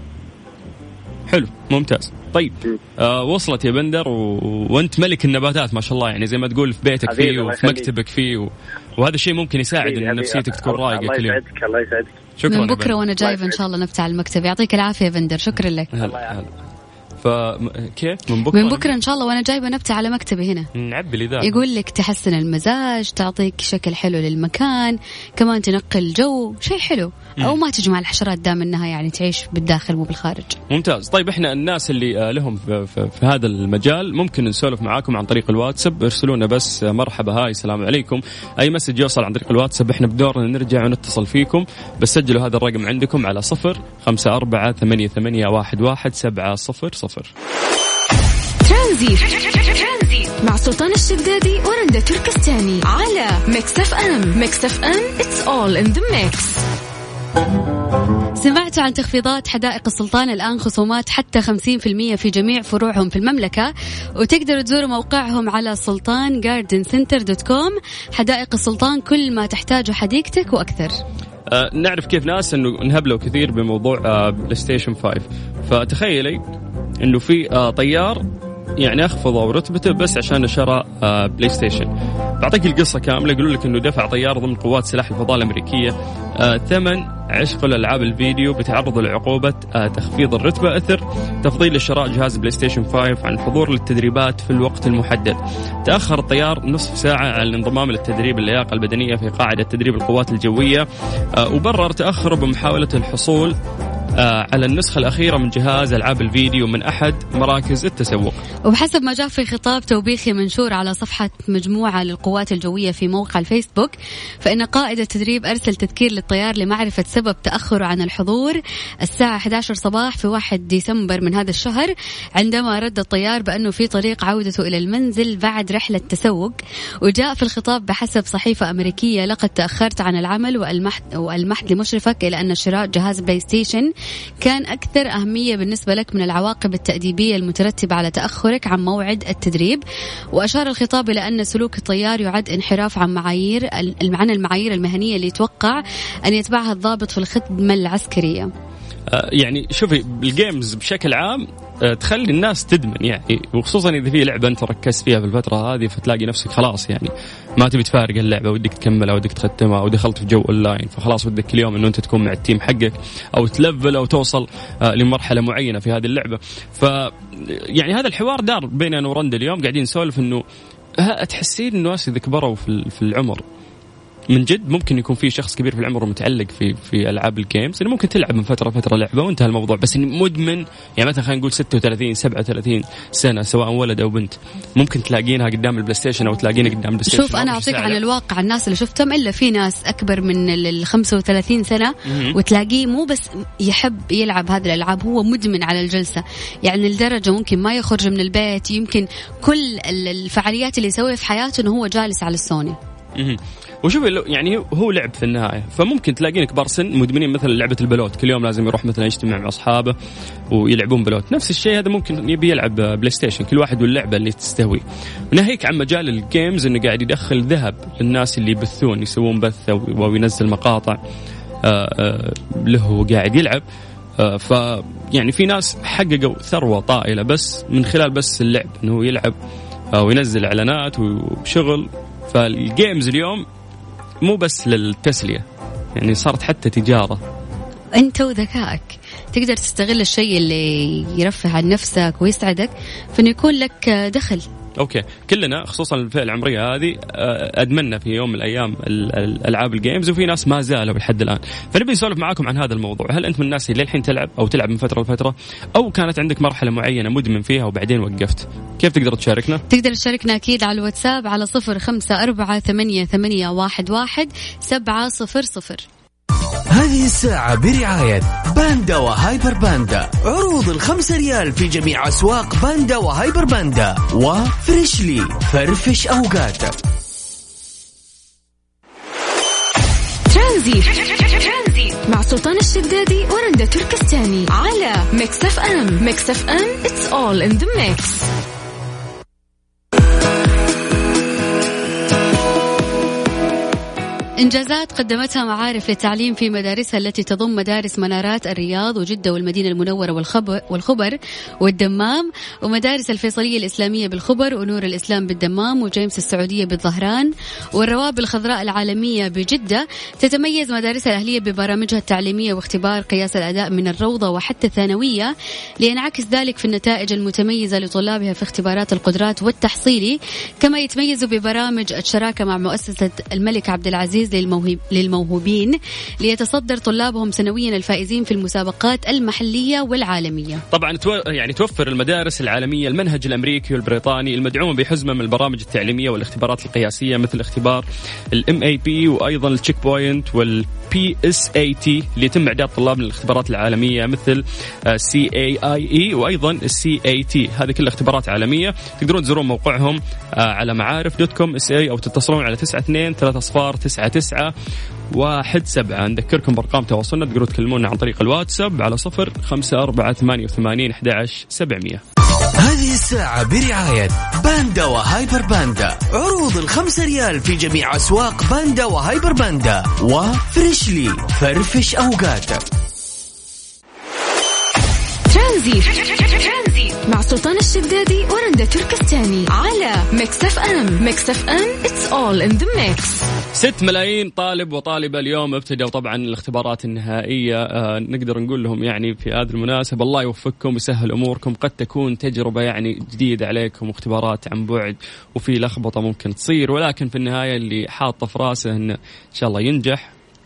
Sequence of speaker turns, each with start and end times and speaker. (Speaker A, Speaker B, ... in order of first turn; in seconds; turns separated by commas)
Speaker A: 1.3-11.4, Speaker B: 7.1-7.9, Speaker B: 9.8-12.2, Speaker A: 12.4-13.0, Speaker C: 12.5-15.9, Speaker B: 13.2-13.6, Speaker A: 15.9-16.5, Speaker B: 16.0-16.4, Speaker A: 17.2-18.9, Speaker C: 18.5-20.7, Speaker A: 20.8-21.6, Speaker C: 21.4-30.6, Speaker A: 30.7-47.3, Speaker D: 48.6-56.6, Speaker C: 58.4-70.9, Speaker A: 71.5-76.4, Speaker A: 77.0-78.2, Speaker A: 78.8-103.5, Speaker A: 104.2-108.4, Speaker C: 108.7-133.9, Speaker C: 134.4-148.5, Speaker A: 149.1-170.4, Speaker A: 171.0-173.4, Speaker A: 174.3-188.0, Speaker C: 187.1-202.8, Speaker A: 192.1-192.4, Speaker A: 203.2-209.9, Speaker A: 210.5-221.0, Speaker A: 221.6-223.6, Speaker A: 224.2-229.4, Speaker A: 229.9-233.4, Speaker A: 234.2-235.4, Speaker A: 236.0-237.2, Speaker C: 238.0-244.4, Speaker A: 244.8-259.6, Speaker C: 259.7-265.9, Speaker E: 266.7-276.8, Speaker D: 280.3-288.3, Speaker C: 294.4-330.6, Speaker A: 330.7-354.5, Speaker A: 355.1-362.0, Speaker E: 362.6-372.6, Speaker D: 375.3-383.3, Speaker A: 383.5-400.1